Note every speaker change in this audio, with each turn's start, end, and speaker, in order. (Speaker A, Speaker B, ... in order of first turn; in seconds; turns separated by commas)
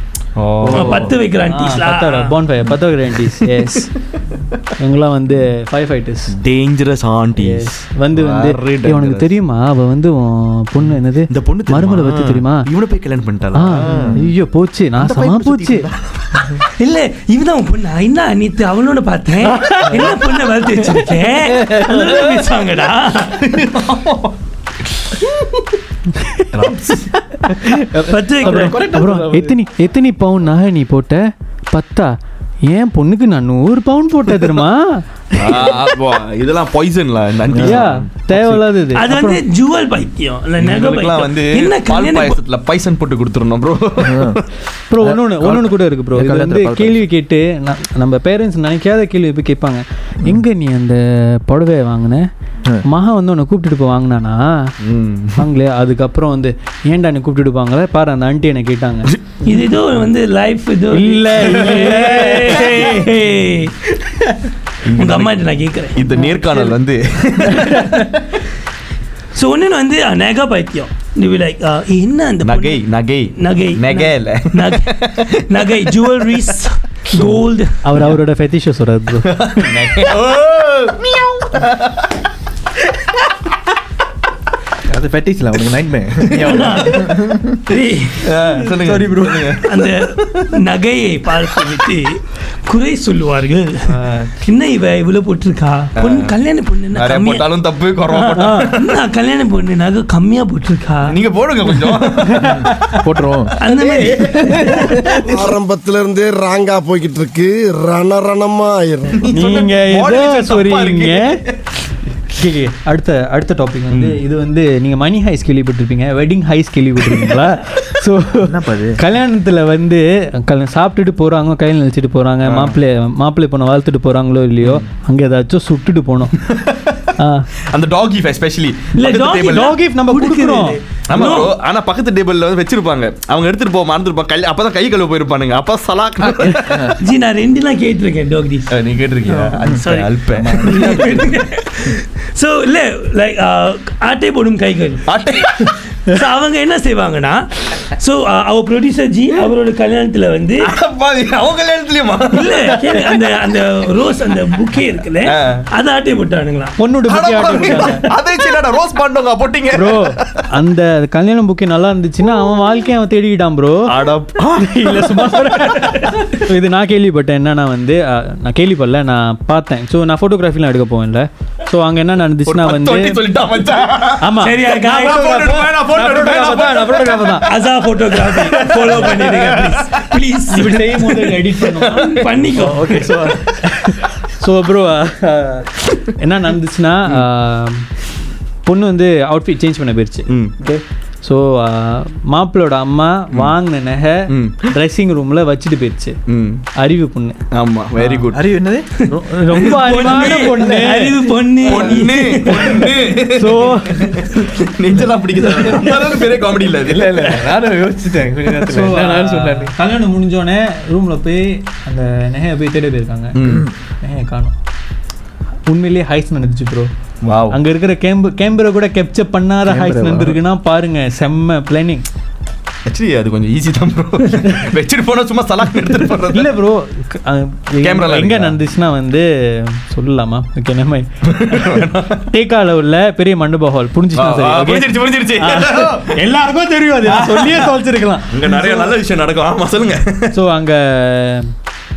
Speaker A: 0.4-1.1, Speaker B: 0.6-1.1, Speaker C: 0.7-2.3, Speaker D: 1.5-3.9, Speaker D: 4.8-6.3, Speaker A: 6.3-9.3, Speaker D: 7.4-12.7, Speaker A: 10.8-14.2, Speaker D: 13.5-15.8, Speaker B: 13.8-14.2, Speaker A: 15.0-16.6, Speaker C: 16.8-23.4, Speaker A: 23.4-24.4, Speaker A: 26.5-27.1, Speaker B: 27.9-29.6, Speaker C: 28.1-28.8, Speaker D: 28.4-31.2, Speaker D: 31.7-32.1, Speaker D: 32.7-35.0, Speaker A: 35.3-38.6, Speaker B: 37.5-37.9, Speaker D: 37.6-39.4, Speaker C: 38.9-42.4, Speaker A: 40.6-44.5, Speaker B: 44.0-44.4, Speaker D: 44.9-52.2, Speaker B: 45.0-47.0, Speaker D: 52.8-54.7, Speaker A: 54.8-55.5, Speaker D: 55.4-59.5, Speaker A: 59.1-59.4, Speaker C: 59.4-63.7, Speaker D: 60.9-63.0, Speaker A: 61.5-63.0, Speaker A: 64.8-68.4, Speaker C: 64.9-66.8, Speaker C: 69.3-77.8, Speaker A: 72.4-75.9, Speaker A: 77.1-77.4, Speaker D: 77.8-79.8, Speaker A: 79.3-82.1, Speaker B: 84.8-87.6, Speaker C: 86.4-87.1, Speaker C: 87.7-88.3, Speaker A: 88.2-90.5, Speaker D: 88.8-89.6, Speaker C: 89.6-97.5, Speaker A: 93.8-94.3, Speaker A: 96.0-96.3, Speaker A: 96.9-98.9, Speaker C: 98.1-101.2, Speaker D: 98.3-98.7, Speaker A: 101.1-102.7, Speaker D: 102.3-103.0, Speaker B: 102.4-103.5, Speaker A: 103.6-104.7, Speaker C: 103.6-104.9, Speaker A: 105.3-105.5, Speaker E: 105.3-109.2, Speaker A: 109.2-111.6, Speaker D: 109.3-111.3, Speaker D: 112.3-126.3, Speaker A: 113.9-114.2, Speaker B: 118.4-119.0, Speaker A: 122.4-122.8, Speaker A: 124.6-124.9, Speaker A: 126.4-127.1, Speaker D: 127.2-127.5, Speaker A: 127.7-129.8, Speaker D: 129.0-130.8, Speaker C: 129.0-131.5, Speaker A: 131.1-137.0, Speaker B: 136.2-136.9, Speaker C: 137.0-138.7, Speaker A: 138.7-141.3, Speaker C: 139.8-150.7, Speaker B: 140.4-140.8, Speaker D: 140.4-141.2, Speaker A: 145.1-145.8, Speaker A: 150.6-153.1, Speaker C: 152.3-156.8, Speaker A: 155.2-155.7, Speaker D: 156.8-158.0, Speaker A: 157.0-160.4, Speaker D: 159.7-173.2, Speaker A: 163.9-166.4, Speaker A: 172.4-183.3, Speaker D: 174.2-177.4, Speaker C: 174.4-175.4, Speaker C: 177.4-180.9, Speaker D: 178.5-179.0, Speaker D: 180.5-182.0, Speaker C: 181.9-182.9, Speaker B: 182.6-183.4, Speaker D: 182.9-187.9, Speaker D: 188.6-196.2, Speaker A: 190.3-190.5, Speaker A: 194.3-194.6, Speaker A: 196.3-196.6, Speaker D: 196.8-197.4, Speaker A: 197.5-198.5, Speaker B: 198.3-199.0, Speaker D: 199.1-201.2, Speaker A: 199.6-200.6, Speaker C: 199.6-202.9, Speaker A: 201.6-207.4, Speaker D: 203.3-204.3, Speaker B: 206.8-209.7, Speaker D: 208.5-214.6, Speaker A: 213.3-213.7, Speaker B: 213.4-213.7, Speaker D: 215.7-216.9, Speaker A: 217.2-217.6, Speaker D: 217.5-222.0, Speaker B: 219.6-220.4, Speaker A: 222.8-226.5, Speaker D: 226.3-238.9, Speaker A: 227.8-228.6, Speaker A: 231.3-232.2, Speaker A: 234.1-236.2, Speaker A: 237.1-240.3, Speaker D: 240.3-241.5